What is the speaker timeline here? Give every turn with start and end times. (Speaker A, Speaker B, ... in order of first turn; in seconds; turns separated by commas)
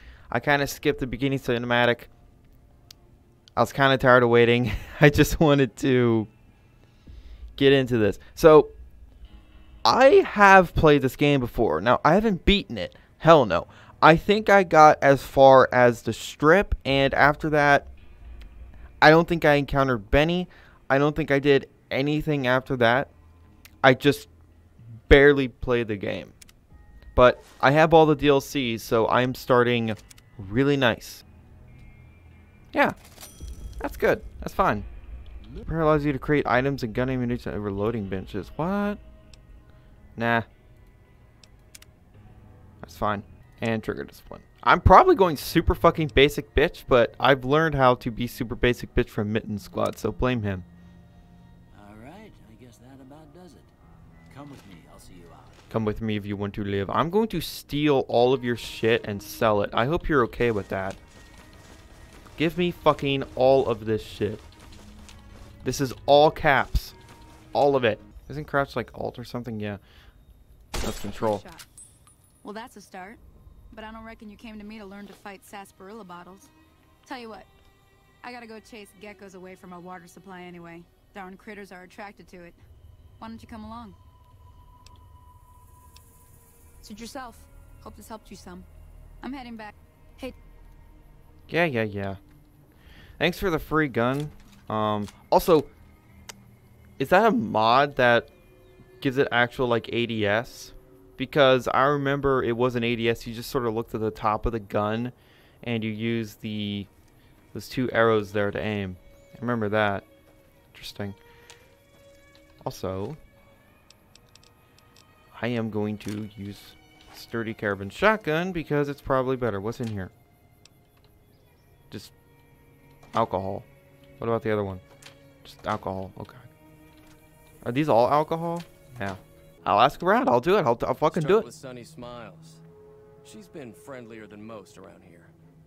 Speaker A: 0.3-2.1, Speaker A: 3.6-6.3, Speaker A: 7.6-8.7, Speaker A: 9.8-17.9, Speaker A: 19.0-23.1, Speaker A: 23.8-24.3, Speaker A: 25.1-26.4, Speaker A: 27.1-31.2, Speaker A: 33.8-34.9, Speaker A: 35.6-39.0, Speaker A: 40.2-40.5, Speaker A: 42.8-50.6, Speaker B: 51.7-53.7, Speaker B: 54.3-55.6, Speaker A: 55.7-61.0, Speaker A: 62.4-64.5, Speaker A: 65.6-67.0, Speaker A: 67.5-69.8, Speaker A: 70.8-71.4, Speaker C: 71.1-71.7, Speaker C: 72.4-73.2, Speaker C: 73.7-76.5, Speaker C: 77.0-77.5, Speaker C: 78.2-82.6, Speaker C: 83.2-84.0, Speaker C: 86.8-88.7, Speaker C: 89.2-90.4, Speaker A: 91.5-92.2, Speaker A: 93.2-95.7, Speaker A: 97.0-98.3, Speaker A: 99.0-106.9, Speaker A: 107.5-110.1, Speaker A: 110.7-111.2, Speaker A: 112.6-113.2, Speaker A: 115.3-120.1, Speaker A: 123.1-123.7, Speaker A: 124.2-124.8, Speaker A: 125.4-126.5, Speaker A: 127.6-131.5, Speaker D: 131.1-132.6, Speaker D: 133.2-135.3